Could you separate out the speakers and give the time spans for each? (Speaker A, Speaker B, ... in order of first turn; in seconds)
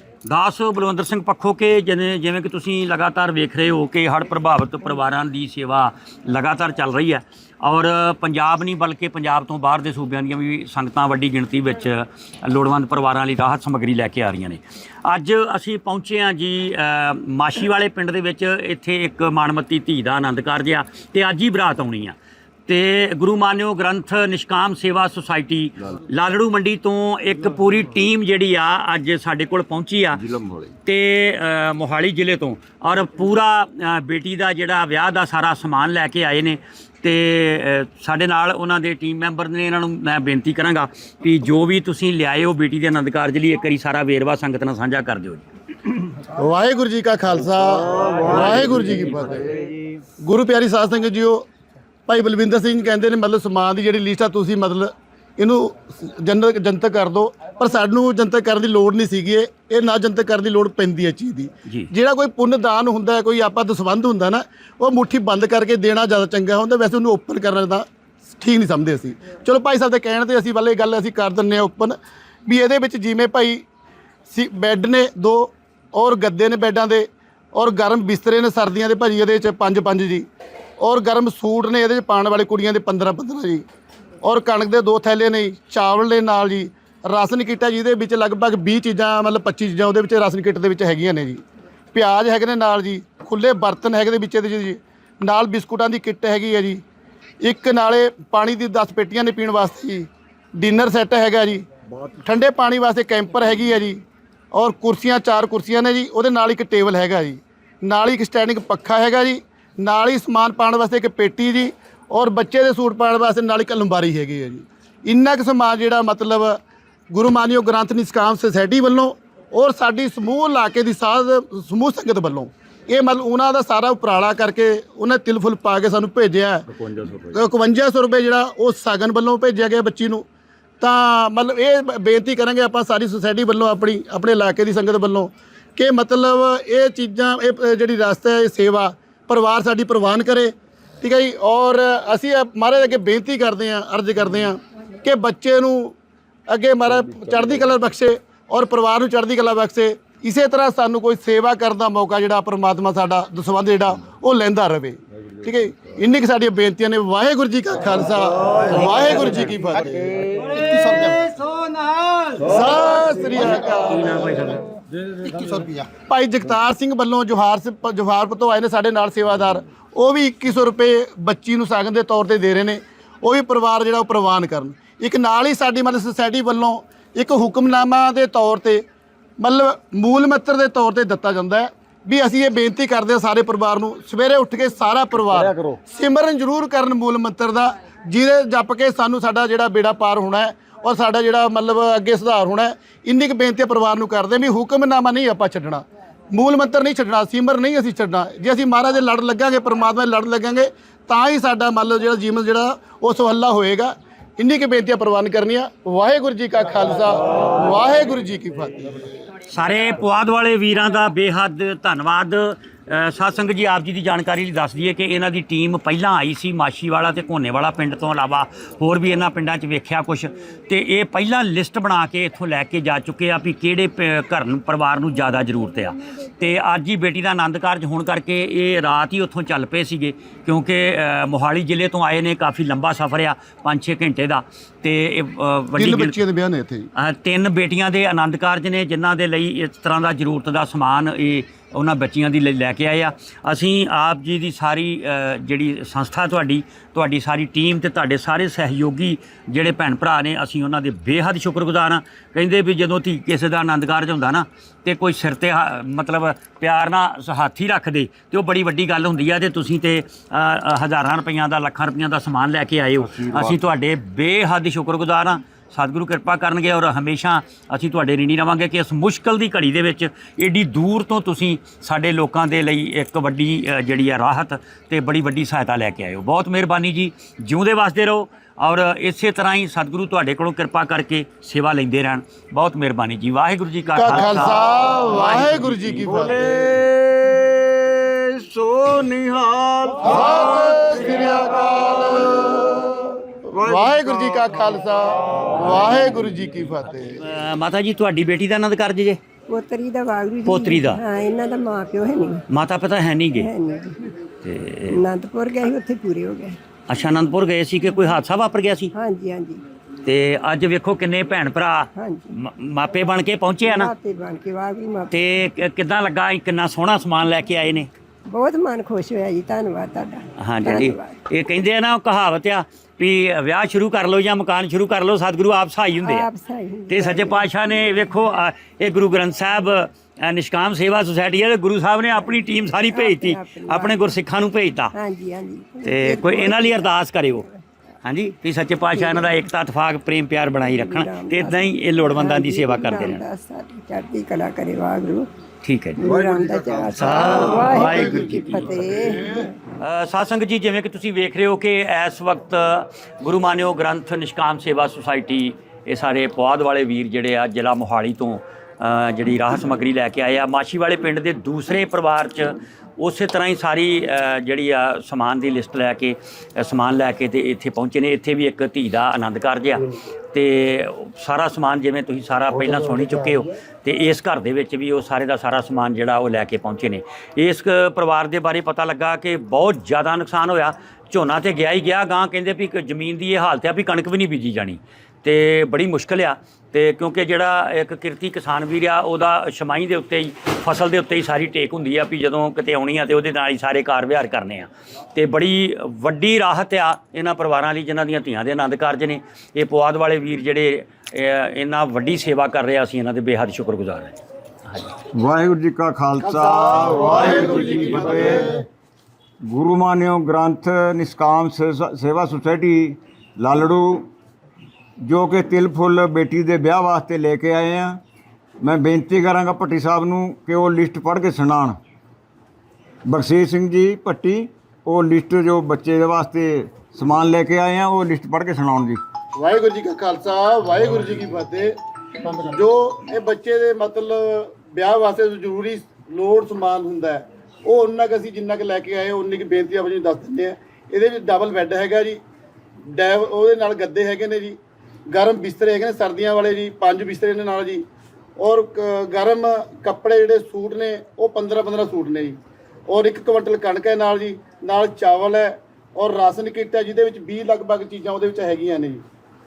Speaker A: 0.2-30.2, 30.8-45.5, 126.8-127.3, 158.6-159.5, 163.9-164.6, 209.5-236.2, 236.9-285.7, 297.2-299.2, 300.4-301.0, 302.5-303.5, 304.4-305.0, 306.9-308.9, 310.0-313.9, 315.1-317.9, 320.4-326.3, 326.9-334.9, 335.8-337.4, 338.0-343.2, 345.6-346.1, 346.9-348.8, 349.7-405.0
Speaker B: 30.2-30.7, 47.7-50.0, 160.0-161.3, 185.2-185.8, 263.1-263.6, 285.3-291.1, 293.5-294.6, 346.0-347.8, 405.1-408.6, 409.4-414.1, 415.0-418.0, 418.6-421.8, 423.1-429.0
Speaker C: 46.3-49.4, 50.2-51.4, 52.1-67.8, 68.4-73.6, 74.3-80.2, 80.8-83.6, 84.2-91.4, 91.9-96.8, 97.4-101.7, 102.2-104.0, 104.5-116.6, 117.1-126.7, 127.3-130.2, 130.8-145.9, 146.5-160.2, 162.3-164.3, 166.1-178.8, 179.4-209.1, 235.8-236.9, 283.9-286.7, 290.0-293.0, 293.6-297.2, 347.8-349.4, 406.2-408.6, 429.4-431.7, 432.3-442.2, 442.9-444.6, 445.1-447.8, 448.4-459.0
Speaker D: 299.5-302.4, 303.4-304.0, 304.9-306.6, 308.9-309.6, 312.0-312.3, 313.6-315.1, 318.3-321.1, 326.0-327.4, 332.8-334.0, 334.9-336.9, 340.7-345.3, 346.0-349.2